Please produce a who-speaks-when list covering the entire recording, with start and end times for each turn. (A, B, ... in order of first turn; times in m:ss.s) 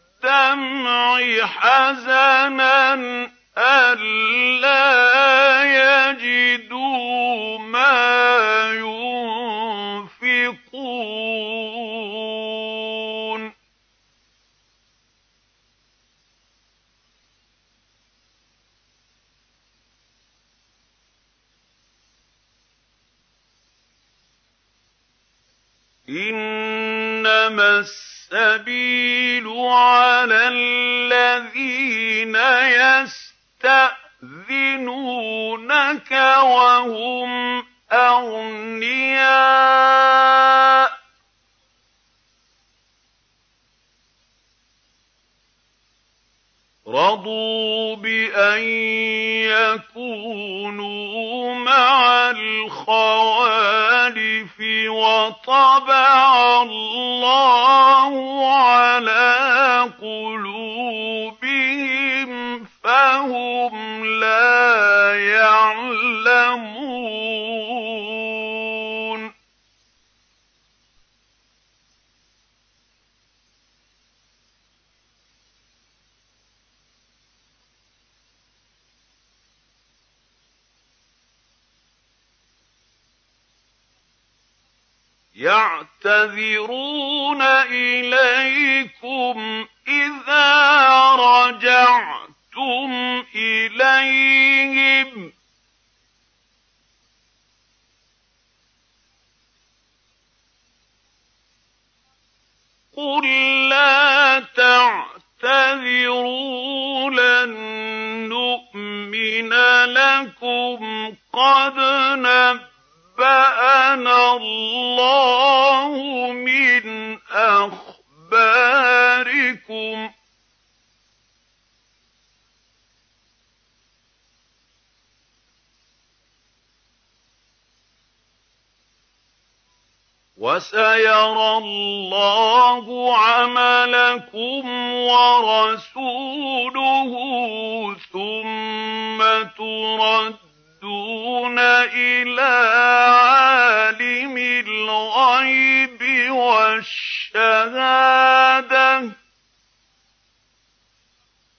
0:00.2-0:13.5 A
0:26.1-0:40.9 A
0:46.9-1:09.3 A
1:25.4-1:35.3 A
1:42.9-2:00.1 A
2:10.4-2:29.2 A